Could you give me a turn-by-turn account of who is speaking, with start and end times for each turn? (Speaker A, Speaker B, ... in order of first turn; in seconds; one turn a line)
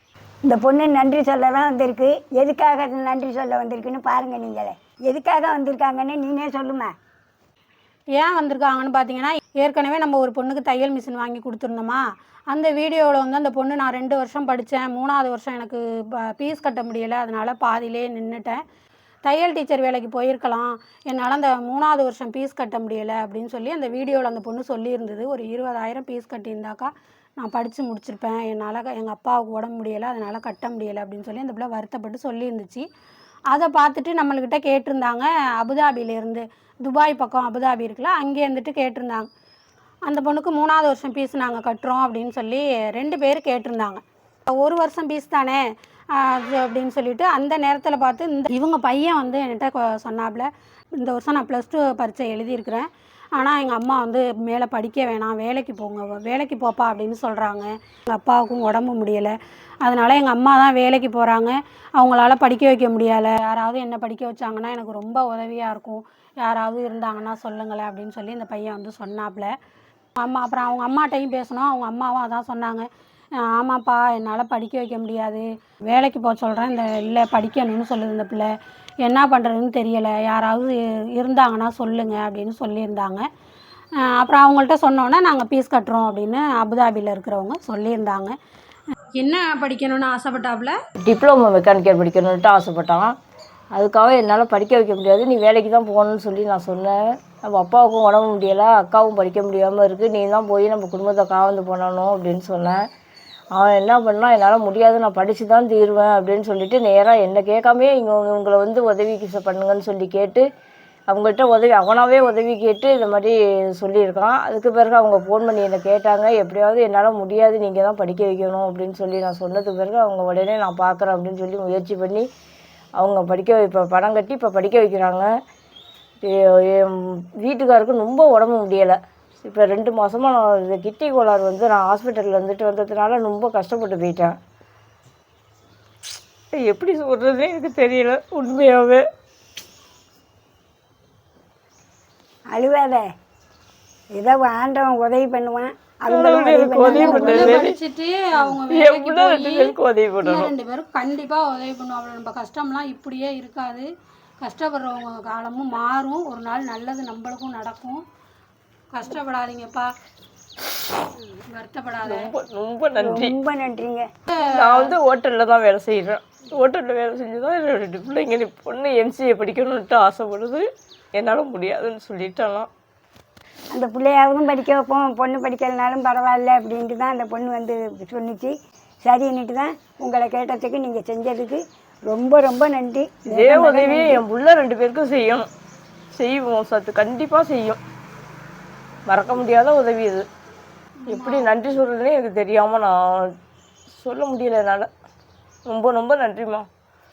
Speaker A: 0.5-6.9
Speaker B: 8.2-18.6
Speaker B: 19.2-32.9
Speaker B: 33.5-39.3
Speaker B: 40.1-69.5
Speaker B: 70.2-72.9
Speaker B: 73.4-83.3
Speaker B: 84.0-88.3
Speaker B: 89.1-90.8
Speaker C: 91.0-93.1
Speaker C: 93.7-102.8
Speaker C: 103.6-110.5
Speaker C: 111.1-122.3
Speaker C: 123.0-125.3
Speaker C: 126.2-134.4
Speaker C: 136.5-139.0
Speaker A: 142.5-143.1
Speaker A: 144.2-147.7
Speaker C: 146.1-147.8
Speaker B: 146.9-153.9
Speaker C: 148.7-150.5
Speaker B: 154.4-158.0
Speaker B: 158.9-159.9
Speaker B: 161.5-162.3
Speaker C: 162.1-163.3
Speaker A: 163.0-164.1
Speaker B: 164.3-165.0
Speaker C: 164.4-172.7
Speaker A: 173.7-184.2
Speaker C: 183.3-185.5
Speaker C: 186.1-187.8
Speaker C: 189.1-190.3
Speaker B: 191.0-191.5
Speaker C: 191.1-193.3
Speaker C: 194.0-194.9
Speaker C: 195.7-196.7